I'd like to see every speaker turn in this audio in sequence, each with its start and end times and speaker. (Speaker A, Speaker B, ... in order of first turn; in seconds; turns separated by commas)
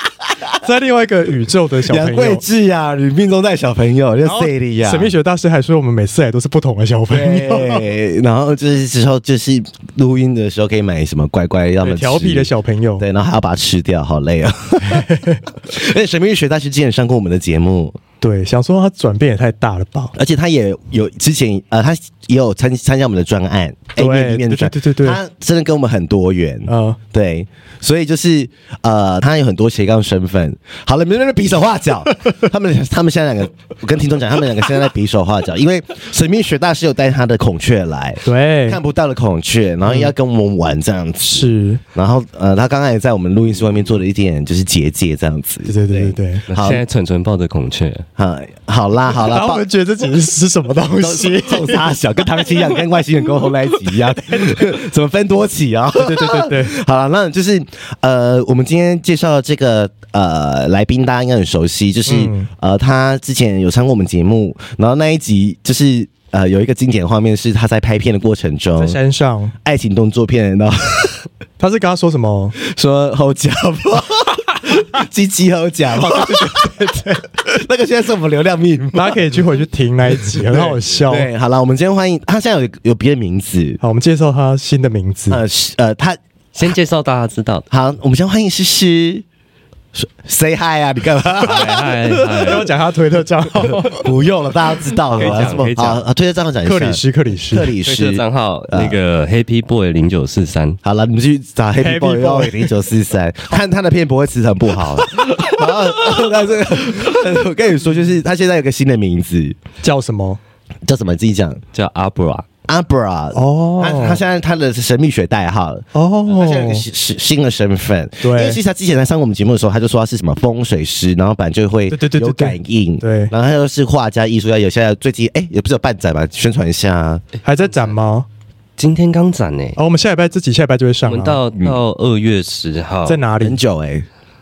Speaker A: 0.6-2.4, Speaker B: 1.9-5.1, Speaker A: 4.2-7.9, Speaker B: 7.1-18.0, Speaker A: 11.8-13.0, Speaker A: 14.9-15.4, Speaker A: 18.2-20.1, Speaker B: 20.1-46.8, Speaker A: 24.0-25.2, Speaker A: 26.7-27.0, Speaker A: 38.2-38.8, Speaker A: 39.9-40.1, Speaker A: 41.3-41.8, Speaker A: 45.7-46.5, Speaker C: 46.5-48.0, Speaker B: 48.2-49.6, Speaker A: 49.2-52.6, Speaker B: 51.0-69.0, Speaker A: 54.2-54.6, Speaker A: 55.9-56.7, Speaker A: 62.0-62.5, Speaker A: 68.8-69.5, Speaker B: 69.6-71.2, Speaker A: 71.6-72.5, Speaker B: 72.6-79.2, Speaker A: 75.9-77.2, Speaker A: 78.9-81.3, Speaker B: 80.2-83.8, Speaker A: 83.8-85.4, Speaker B: 85.3-86.2, Speaker C: 86.5-87.7, Speaker B: 87.7-89.2, Speaker B: 89.9-92.6, Speaker C: 91.4-92.7, Speaker A: 92.3-94.0, Speaker B: 93.8-99.0, Speaker A: 95.0-95.7, Speaker C: 95.1-96.0, Speaker A: 96.6-97.7, Speaker C: 97.8-100.8, Speaker B: 100.8-109.6, Speaker A: 101.8-102.7, Speaker A: 109.8-110.4, Speaker B: 110.9-111.6, Speaker C: 111.7-112.5, Speaker B: 112.7-127.2, Speaker A: 113.3-114.2, Speaker A: 115.9-116.8, Speaker A: 118.2-118.6, Speaker A: 121.9-123.3, Speaker A: 127.4-128.3, Speaker C: 127.6-127.9, Speaker C: 128.8-129.8, Speaker A: 129.8-131.4, Speaker C: 131.1-133.2, Speaker A: 133.1-133.6, Speaker B: 133.4-134.1